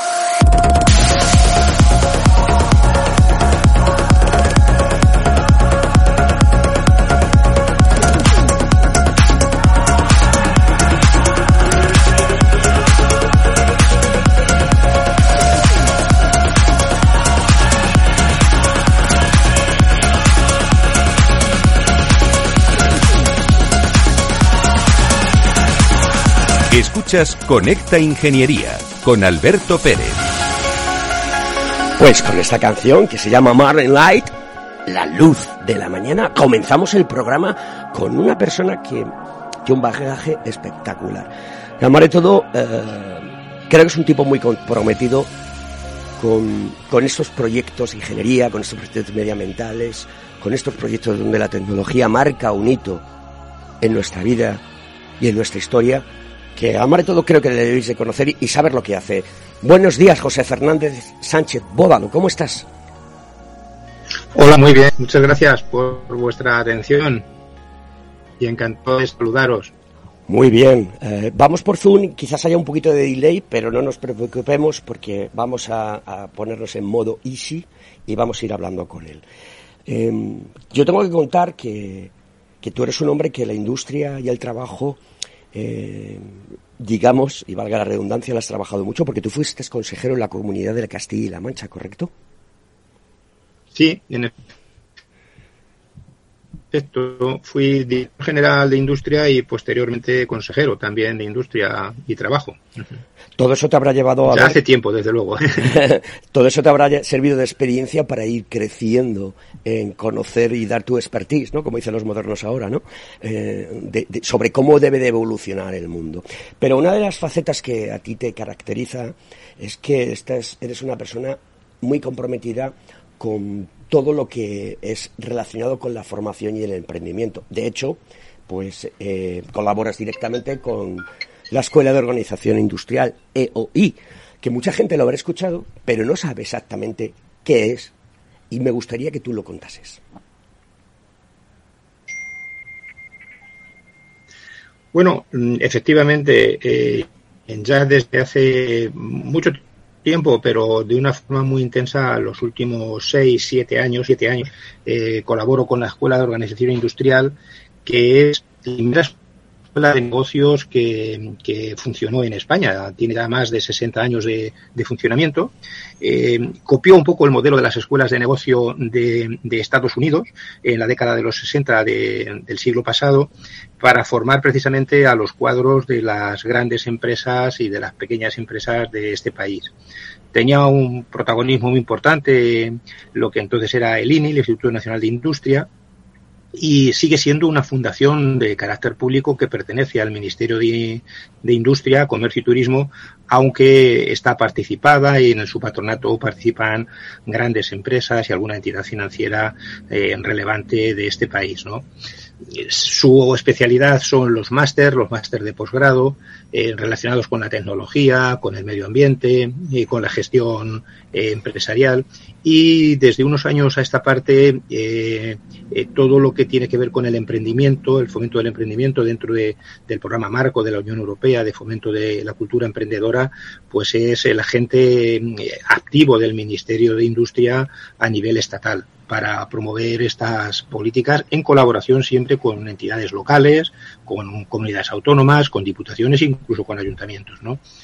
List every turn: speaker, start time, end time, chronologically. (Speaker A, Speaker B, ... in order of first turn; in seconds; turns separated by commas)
Speaker A: 26.7-30.2, Speaker B: 32.0-34.4, Speaker B: 34.9-39.1, Speaker B: 39.6-45.3, Speaker B: 46.2-53.0, Speaker B: 53.8-54.6, Speaker B: 55.2-62.7, Speaker C: 64.3-67.2, Speaker C: 68.4-69.7, Speaker B: 70.3-79.2, Speaker B: 79.9-85.0, Speaker B: 85.5-92.1, Speaker C: 93.8-94.3, Speaker C: 96.7-102.6, Speaker B: 103.4-104.6, Speaker C: 104.3-105.7, Speaker B: 105.6-137.9, Speaker B: 138.5-140.0, Speaker C: 144.9-159.1, Speaker C: 159.8-179.7, Speaker C: 180.3-185.7, Speaker C: 186.6-201.9, Speaker C: 202.5-237.6